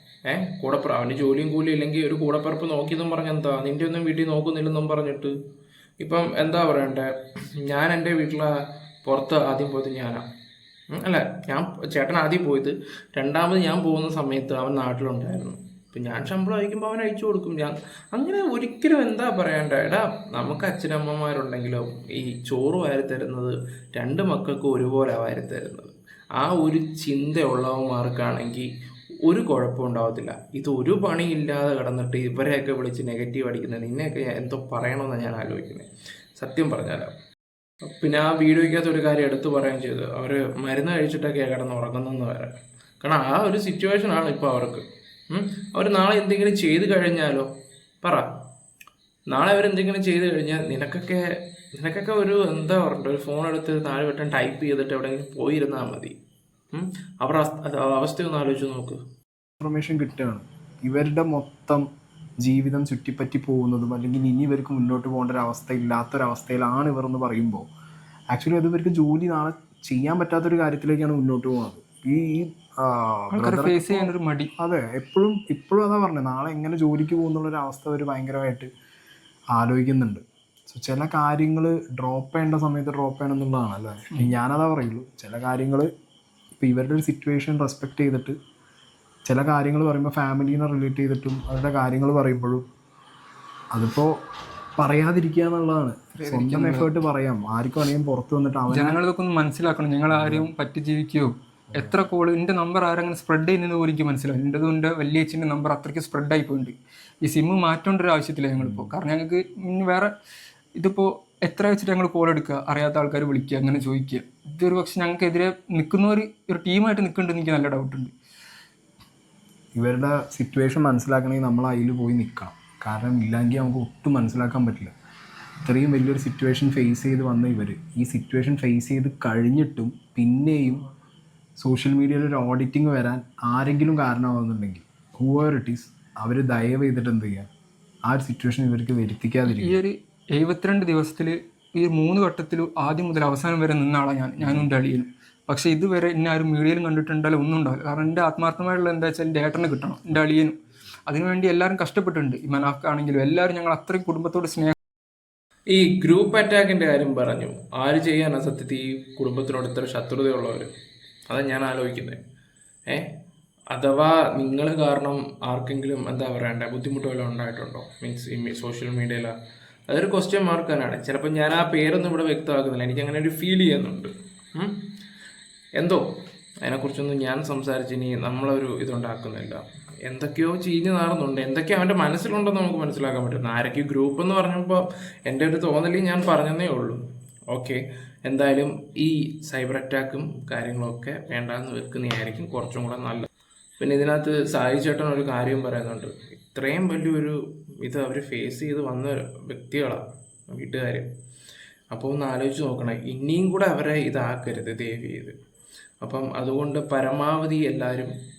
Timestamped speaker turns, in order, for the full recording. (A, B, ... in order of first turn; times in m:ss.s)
0:00.3-0:05.3 A
0:06.0-0:07.1 A
0:07.7-0:08.5 A
0:09.0-0:10.2 A
0:10.9-0:28.7 A
0:29.3-0:37.1 A
0:37.9-0:47.5 A
0:49.3-0:51.2 A
0:51.8-0:56.1 A
0:56.7-0:59.0 A
0:59.6-1:01.9 B
1:02.4-1:07.7 B
1:08.3-1:18.7 B
1:13.3-1:14.5 C
1:19.6-1:25.9 B
1:26.6-1:28.4 B
1:29.2-1:32.6 B
1:33.7-1:34.1 B
1:34.8-1:39.0 B
1:36.2-1:36.9 C
1:38.7-1:50.1 C
1:40.1-1:40.5 B
1:48.6-1:48.9 B
1:50.8-1:58.1 C
1:59.8-2:04.9 B
2:05.6-2:10.8 B
2:11.6-2:17.5 B
2:18.1-2:19.8 B
2:19.5-2:30.6 C
2:24.4-2:24.7 B
2:31.1-2:34.7 C
2:35.7-2:40.7 A
2:41.3-2:42.2 A
2:43.7-2:49.3 A
2:49.9-2:54.8 A
2:55.8-2:56.0 A
2:56.6-3:07.0 A
3:07.5-3:13.3 A
3:13.8-3:21.1 A
3:21.9-3:25.3 A
3:26.0-3:28.1 A